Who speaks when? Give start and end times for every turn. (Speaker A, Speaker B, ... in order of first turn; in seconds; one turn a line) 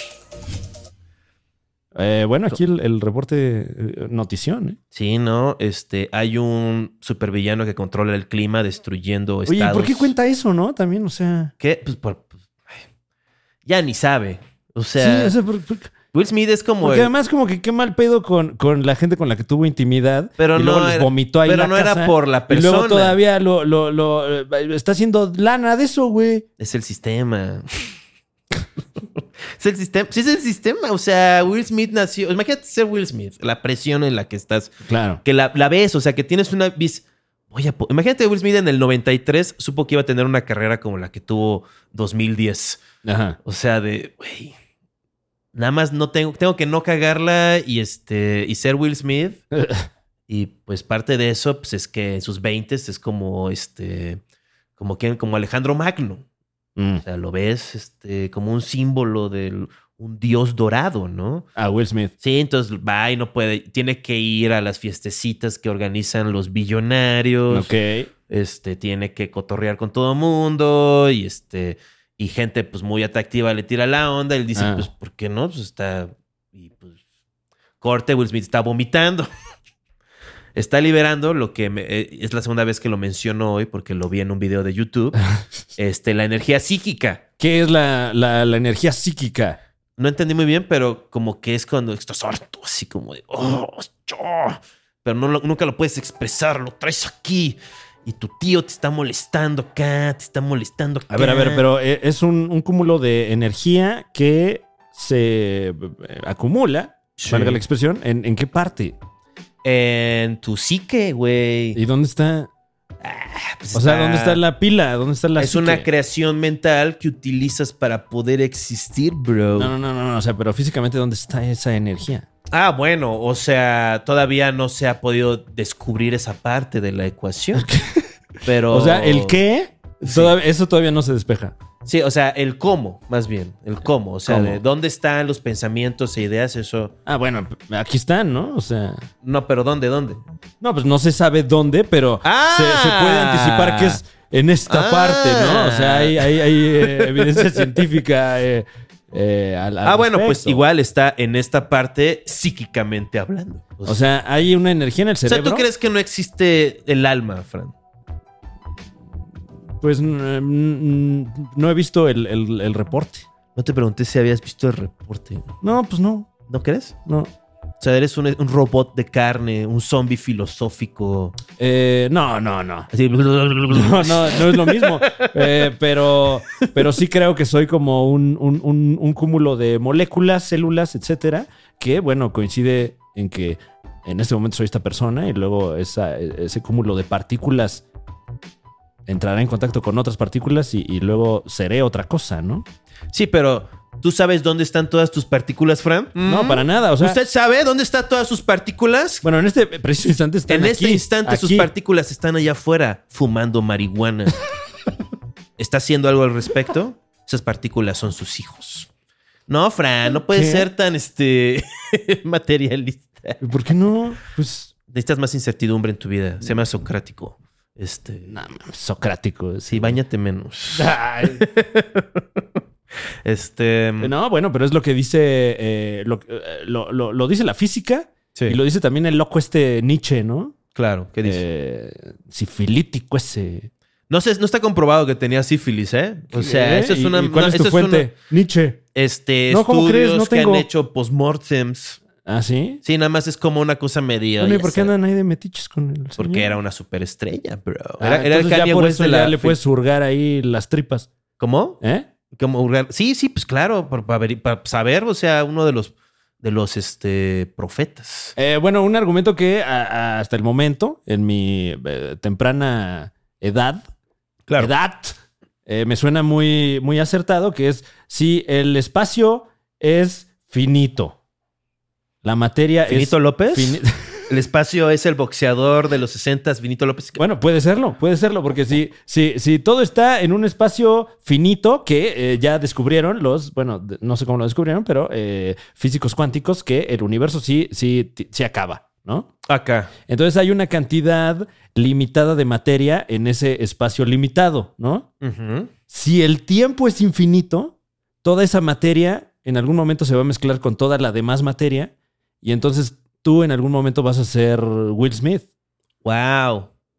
Speaker A: 1.9-4.8
Speaker B: 4.9-10.1
Speaker A: 9.4-11.5
Speaker B: 11.6-12.8
Speaker B: 13.6-15.3
Speaker A: 15.0-15.9
Speaker B: 16.1-17.1
Speaker A: 16.8-26.4
Speaker B: 20.4-23.2
Speaker B: 26.6-28.0
Speaker B: 29.6-42.8
Speaker A: 34.9-35.2
Speaker A: 43.0-43.4
Speaker B: 43.4-44.5
Speaker B: 45.5-49.4
Speaker A: 49.5-49.9
Speaker B: 50.3-54.2
Speaker B: 54.8-56.2
Speaker A: 56.8-57.0
Speaker B: 57.0-61.5
Speaker A: 61.5-62.1
Speaker B: 62.2-67.7
Speaker A: 67.5-68.1
Speaker B: 68.3-77.0
Speaker A: 74.5-74.9
Speaker B: 77.8-79.3
Speaker B: 80.5-85.2
Speaker B: 85.8-87.2
Speaker A: 87.4-89.6
Speaker B: 90.0-101.7
Speaker A: 101.1-109.0
Speaker B: 107.2-107.6
Speaker B: 109.6-111.8
Speaker A: 111.7-112.5
Speaker B: 113.0-114.4
Speaker A: 113.7-115.9
Speaker B: 115.4-119.7
Speaker A: 119.6-122.2
Speaker B: 122.5-127.7
Speaker A: 127.6-128.1
Speaker B: 128.4-129.4
Speaker A: 128.7-131.5
Speaker B: 130.0-130.3
Speaker B: 131.8-136.9
Speaker A: 134.3-134.6
Speaker A: 137.1-139.1
Speaker B: 139.2-140.2
Speaker A: 140.6-150.6
Speaker B: 142.2-144.0
Speaker B: 144.7-147.8
Speaker B: 149.8-154.0
Speaker A: 153.8-155.6
Speaker B: 155.2-157.7
Speaker A: 159.8-163.3
Speaker B: 163.6-165.5
Speaker A: 165.6-166.3
Speaker B: 166.5-167.0
Speaker B: 167.8-171.3
Speaker A: 171.6-172.9
Speaker B: 172.9-175.7
Speaker A: 173.7-187.8
Speaker B: 176.6-176.9
Speaker A: 189.1-192.6
Speaker B: 193.1-199.2
Speaker A: 196.2-197.2
Speaker A: 199.2-201.7
Speaker B: 200.5-204.4
Speaker B: 205.6-208.9
Speaker B: 209.5-213.4
Speaker A: 210.2-210.7
Speaker A: 213.4-214.7
Speaker B: 214.9-218.3
Speaker A: 218.3-220.0
Speaker B: 219.7-222.6
Speaker A: 220.7-221.4
Speaker B: 223.2-224.1
Speaker A: 224.0-230.6
Speaker B: 230.7-231.4
Speaker A: 231.2-233.7
Speaker B: 234.1-238.1
Speaker A: 236.3-238.8
Speaker B: 238.9-242.0
Speaker A: 239.5-240.7
Speaker A: 242.2-242.8
Speaker B: 242.8-244.9
Speaker A: 244.4-246.5
Speaker B: 246.2-249.6
Speaker A: 248.0-251.1
Speaker B: 251.4-251.8
Speaker A: 251.8-252.1
Speaker B: 252.3-258.3
Speaker A: 258.4-263.9
Speaker B: 264.5-264.7
Speaker A: 264.6-265.1
Speaker A: 265.7-271.2
Speaker A: 272.2-274.2
Speaker B: 272.9-277.2
Speaker A: 277.2-289.3
Speaker B: 289.5-289.9
Speaker A: 290.1-295.1
Speaker B: 295.2-295.7
Speaker A: 295.9-305.4
Speaker B: 306.0-306.7